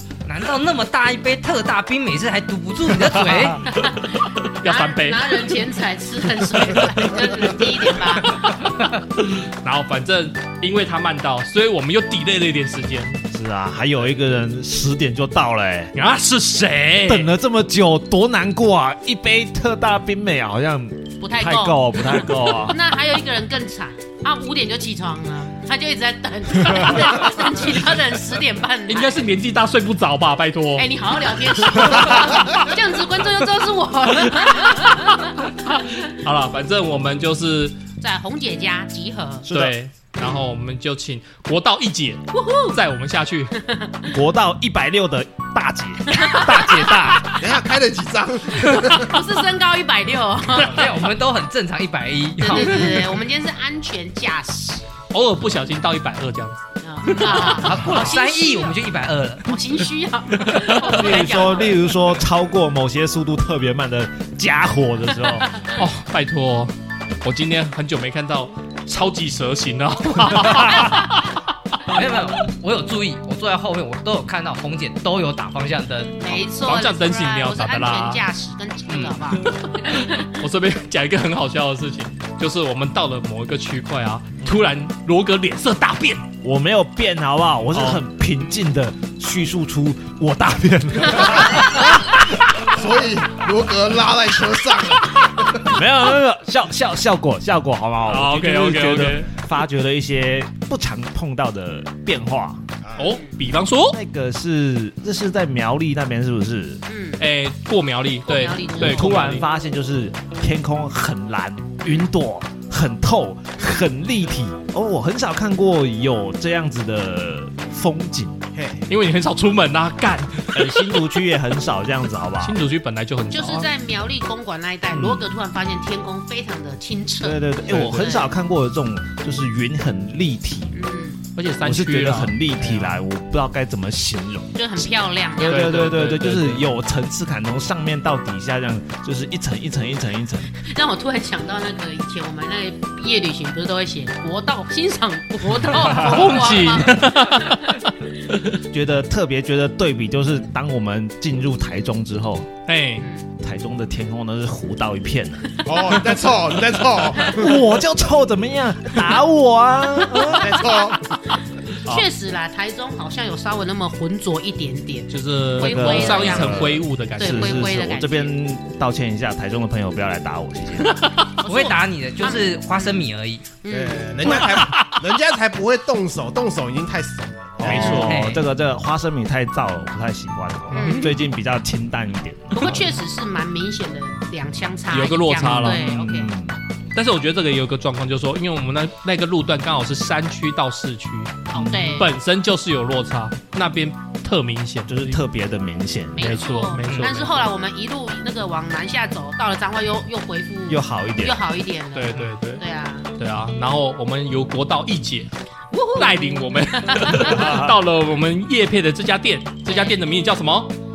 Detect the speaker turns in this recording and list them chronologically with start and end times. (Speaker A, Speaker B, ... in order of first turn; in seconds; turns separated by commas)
Speaker A: 0.2-3.8, Speaker B: 3.0-5.5, Speaker C: 3.7-8.4, Speaker B: 7.0-13.2, Speaker D: 13.3-15.9, Speaker B: 15.9-17.3, Speaker D: 17.0-22.8, Speaker C: 21.2-22.0, Speaker C: 22.6-29.2, Speaker B: 28.9-31.0, Speaker C: 30.8-35.4, Speaker B: 31.8-32.6, Speaker B: 34.2-37.8, Speaker C: 38.0-39.5, Speaker D: 39.4-39.7, Speaker B: 39.5-43.6, Speaker C: 40.1-40.4, Speaker C: 42.3-42.8, Speaker C: 43.6-44.1, Speaker D: 44.1-47.3, Speaker C: 46.1-47.4, Speaker E: 47.3-49.2, Speaker C: 48.8-51.0, Speaker A: 50.6-53.2, Speaker C: 52.4-54.8, Speaker B: 55.1-58.0, Speaker C: 56.8-58.8, Speaker A: 57.3-59.6, Speaker C: 59.4-61.9, Speaker B: 60.4-61.2, Speaker D: 60.8-65.5, Speaker C: 65.5-65.8, Speaker B: 65.6-72.0, Speaker A: 71.8-76.4, Speaker C: 76.2-80.3, Speaker B: 76.6-78.2, Speaker A: 78.9-79.2, Speaker B: 79.3-86.3, Speaker D: 86.4-92.0, Speaker B: 87.7-88.0, Speaker E: 91.2-95.8, Speaker D: 95.6-102.6, Speaker B: 98.0-99.3, Speaker B: 103.0-104.0, Speaker C: 103.0-103.3, Speaker D: 103.9-106.8, Speaker C: 106.9-107.2, Speaker B: 107.2-109.4, Speaker C: 108.2-109.2, Speaker D: 108.8-118.4, Speaker C: 113.5-113.9, Speaker E: 118.5-118.8, Speaker B: 118.9-121.0, Speaker D: 120.5-122.6, Speaker B: 122.4-123.7, Speaker C: 123.3-128.3, Speaker D: 124.9-125.2, Speaker D: 127.2-130.8, Speaker B: 127.7-128.0, Speaker C: 130.7-131.2, Speaker B: 131.4-133.0, Speaker D: 131.6-134.6, Speaker C: 134.5-135.7, Speaker D: 135.4-140.5, Speaker B: 135.4-136.7, Speaker C: 140.5-147.8, Speaker B: 145.8-148.5, Speaker D: 145.9-146.6, Speaker D: 148.6-152.5, Speaker B: 152.7-153.1, Speaker C: 153.0-153.2, Speaker D: 153.4-155.6, Speaker E: 155.7-157.6, Speaker D: 157.2-160.7, Speaker C: 160.2-160.8, Speaker E: 160.3-161.2, Speaker C: 161.3-168.3, Speaker B: 165.1-167.6, Speaker D: 165.6-171.0, Speaker B: 170.8-171.3, Speaker C: 171.4-173.0, Speaker A: 171.4-173.5, Speaker C: 173.6-174.5, Speaker E: 173.7-177.9, Speaker B: 174.2-175.0, Speaker D: 177.6-182.9, Speaker B: 177.7-178.1, Speaker C: 177.7-178.0, Speaker A: 177.8-178.4, Speaker C: 180.7-181.2, Speaker C: 182.5-186.3, Speaker B: 184.9-185.9, Speaker D: 185.4-186.6, Speaker B: 186.9-195.2, Speaker C: 191.5-192.1, Speaker D: 191.5-192.0, Speaker D: 194.9-196.3, Speaker C: 196.1-203.1, Speaker B: 196.2-197.5, Speaker D: 200.7-201.4, Speaker B: 201.9-202.6, Speaker B: 203.2-205.3, Speaker C: 205.7-207.4, Speaker B: 205.9-210.7, Speaker D: 207.2-207.7, Speaker C: 209.6-210.0